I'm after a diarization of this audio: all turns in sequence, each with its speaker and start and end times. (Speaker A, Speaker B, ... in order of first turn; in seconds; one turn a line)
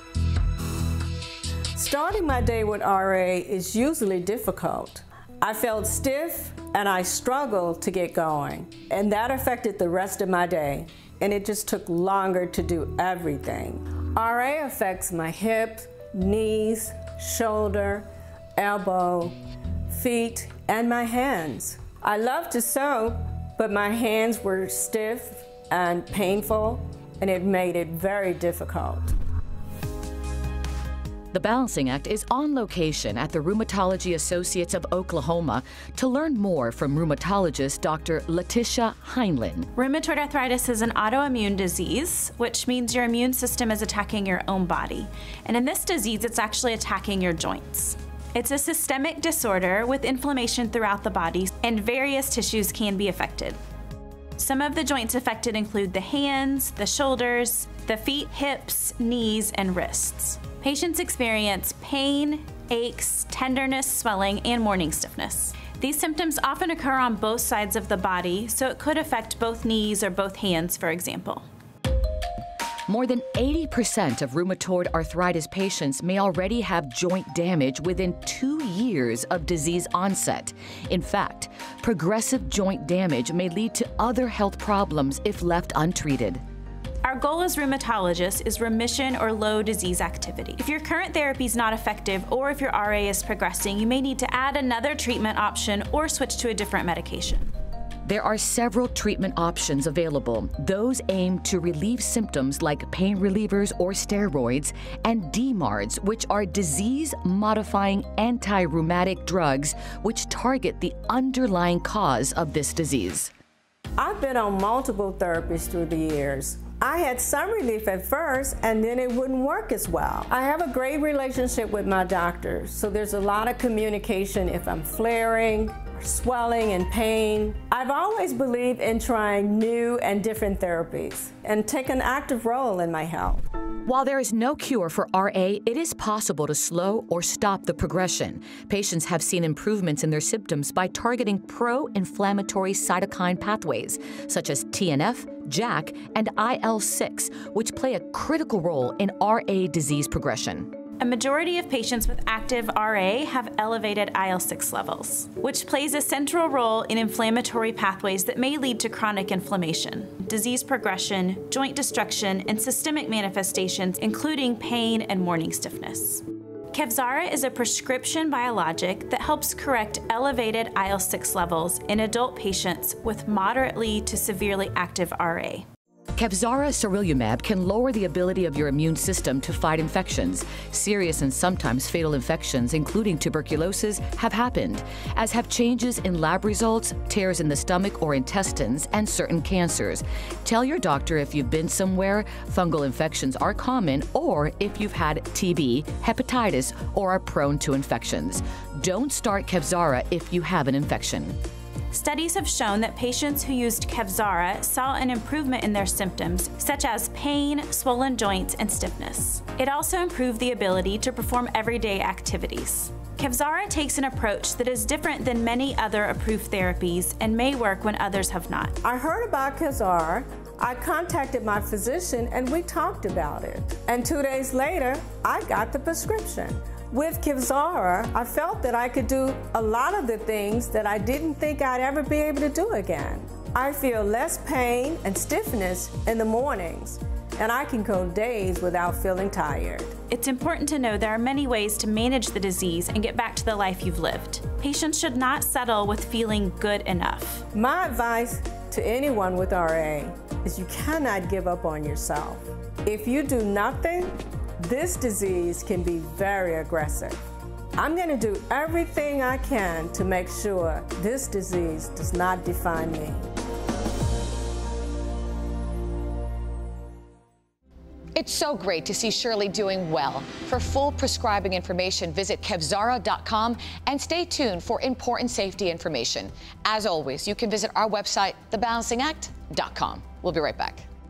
Speaker A: 1.8-19.4
Speaker A: 19.9-29.1
Speaker B: 31.3-39.7
Speaker C: 39.8-53.6
Speaker C: 54.4-71.5
Speaker B: 72.9-86.4
Speaker C: 87.0-97.5
Speaker B: 98.0-113.3
Speaker A: 114.0-133.4
Speaker B: 133.8-150.7
Speaker C: 151.0-175.7
Speaker B: 176.2-201.3
Speaker C: 201.9-218.8
Speaker A: 218.8-239.9
Speaker C: 240.1-247.5
Speaker A: 247.5-257.2
Speaker A: 257.8-263.3
Speaker B: 268.2-280.9